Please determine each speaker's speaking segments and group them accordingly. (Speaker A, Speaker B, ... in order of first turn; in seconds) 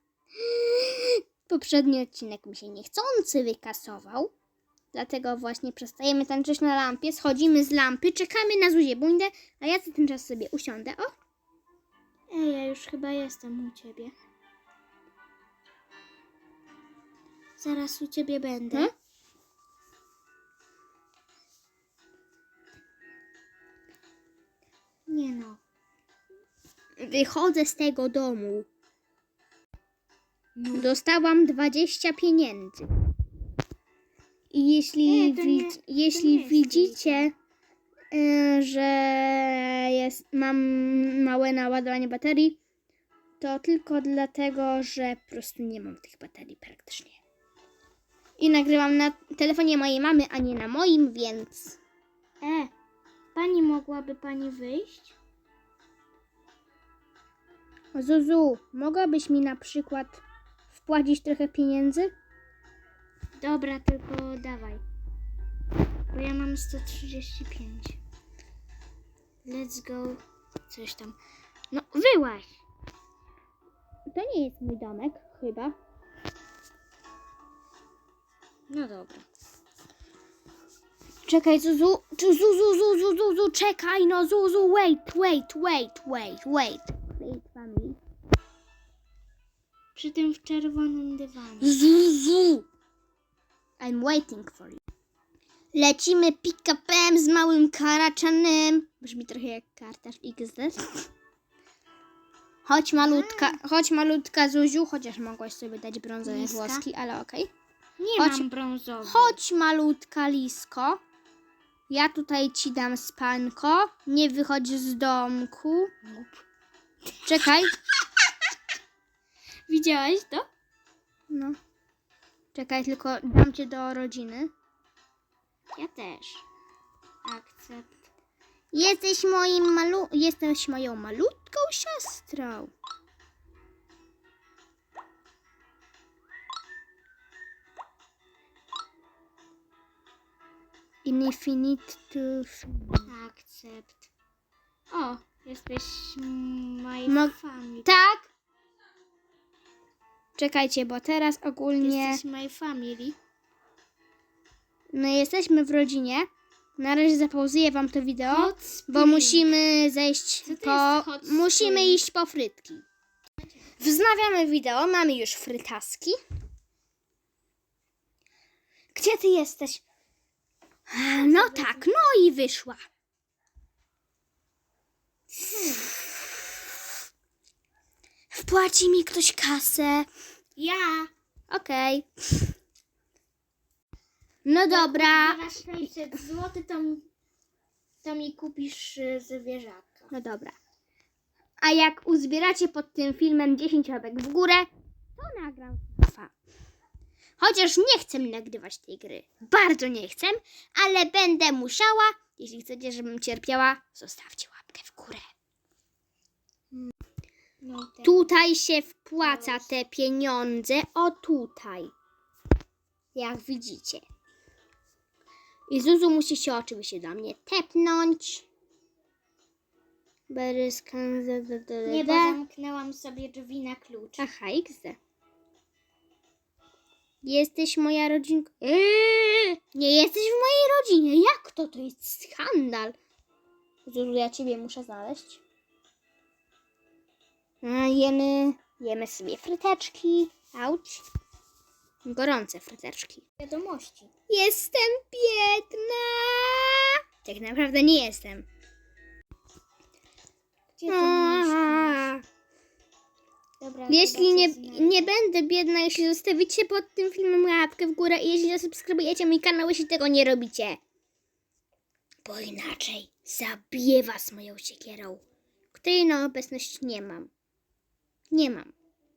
Speaker A: 0.3-4.3, 4.9-11.1, 27.0-28.7, 30.7-32.9, 34.5-37.3, 38.1-42.6, 43.4-47.2, 48.4-51.8, 57.9-62.1, 74.1-75.8, 81.3-88.0, 91.6-92.6, 93.8-94.8, 95.7-101.1, 102.6-107.5, 108.2-108.5, 109.0-111.0, 111.9-115.9, 117.2-117.7, 121.3-121.6, 122.5-124.5, 128.7-132.7, 141.0-143.1, 147.1-148.3, 150.4-152.2, 154.9-162.8, 163.8-166.2, 168.9-169.8, 170.9-172.8, 178.3-180.1, 181.5-182.5, 184.4-185.4, 190.1-190.6, 191.6-196.3, 197.4-205.3, 208.0-211.9, 213.1-214.0, 215.7-218.5, 220.3-222.4, 224.2-225.0, 227.2-232.9, 233.8-235.4, 237.6-241.0, 242.0-243.2, 244.3-248.5, 250.9-252.2, 253.9-260.8, 262.2-267.3, 268.3-268.7
Speaker B: 12.3-14.1, 17.6-18.9, 25.1-25.6, 30.6-30.9, 35.0-37.3, 52.4-52.7, 53.3-55.1, 63.4-64.8, 66.1-68.0, 69.4-71.2, 71.7-72.6, 78.7-79.3, 89.9-91.8, 103.0-103.6, 106.2-106.8, 108.0-109.4, 119.7-120.5, 125.7-126.4, 127.2-128.1, 143.1-144.1, 144.9-148.0, 151.8-153.2, 158.3-159.5, 160.4-162.0, 171.0-171.9, 175.3-175.9, 180.6-181.1, 184.6-187.1, 188.0-190.1, 207.6-208.3, 209.2-209.7, 221.8-224.2, 243.4-244.1, 250.7-252.0, 253.6-255.1